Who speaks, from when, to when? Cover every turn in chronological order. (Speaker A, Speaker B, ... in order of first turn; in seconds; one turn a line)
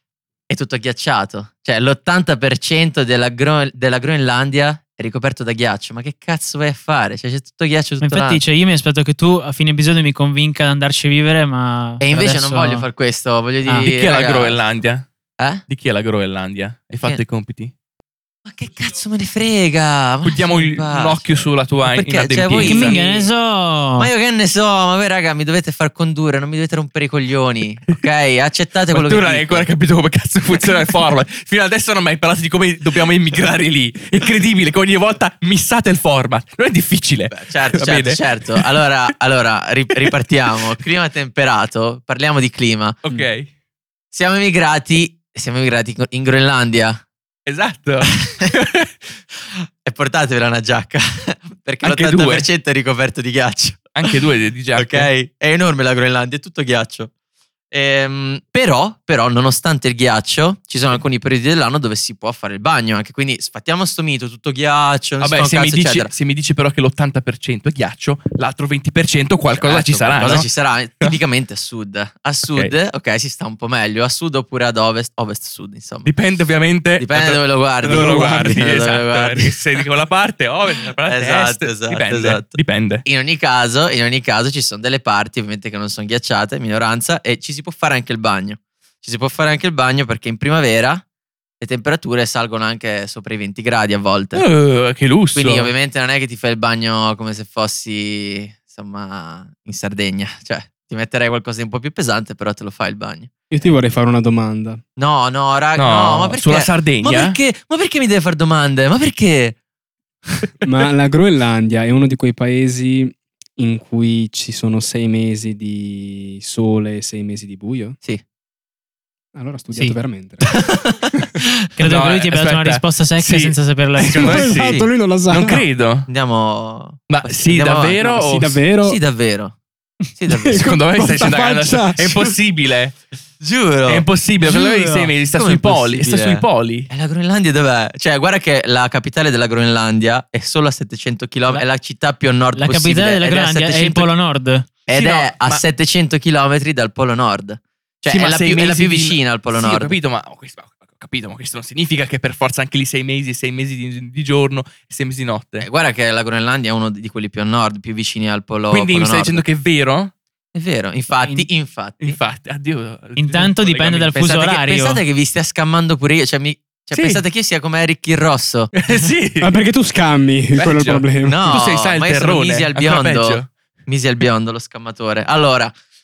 Speaker A: 0.5-8.4
Speaker B: 8.0-12.8
Speaker A: 12.0-14.6
Speaker C: 13.8-15.1
Speaker C: 15.7-17.7
Speaker A: 18.4-23.3
Speaker C: 20.2-22.9
Speaker B: 22.6-24.1
Speaker A: 24.0-29.7
Speaker C: 28.9-38.6
Speaker A: 37.3-43.0
Speaker C: 43.0-43.5
Speaker A: 44.1-47.0
Speaker C: 47.5-48.9
Speaker A: 48.1-48.5
Speaker A: 49.5-54.1
Speaker C: 51.8-52.5
Speaker C: 53.9-55.1
Speaker A: 54.8-57.1
Speaker A: 57.7-66.1
Speaker C: 65.2-70.5
Speaker A: 69.5-76.1
Speaker C: 76.0-83.0
Speaker A: 77.0-79.6
Speaker D: 77.9-78.4
Speaker A: 81.0-91.0
Speaker A: 91.6-94.4
Speaker C: 94.3-95.7
Speaker A: 95.3-103.3
Speaker D: 103.5-104.8
Speaker A: 105.0-109.6
Speaker C: 105.8-107.4
Speaker D: 110.6-118.0
Speaker D: 119.3-120.5
Speaker A: 120.5-121.5
Speaker B: 121.8-124.5
Speaker C: 121.8-123.5
Speaker D: 124.0-125.6
Speaker C: 124.1-126.1
Speaker A: 126.1-128.1
Speaker C: 127.1-128.6
Speaker D: 128.0-129.0
Speaker A: 128.8-129.6
Speaker A: 130.1-130.7
Speaker D: 130.3-132.3
Speaker C: 130.6-133.0
Speaker A: 133.4-134.1
Speaker C: 133.9-136.9
Speaker B: 134.5-135.1
Speaker A: 135.3-144.1
Speaker B: 142.6-144.7
Speaker A: 144.8-149.9
Speaker C: 144.9-145.6
Speaker C: 148.1-155.7
Speaker A: 155.6-159.4
Speaker C: 158.7-160.1
Speaker A: 160.5-162.2
Speaker B: 161.2-161.5
Speaker C: 162.0-164.2
Speaker B: 163.2-165.0
Speaker A: 164.1-168.8
Speaker C: 166.9-167.2
Speaker C: 168.8-169.5
Speaker D: 169.4-171.5
Speaker C: 170.5-173.5
Speaker A: 171.2-175.7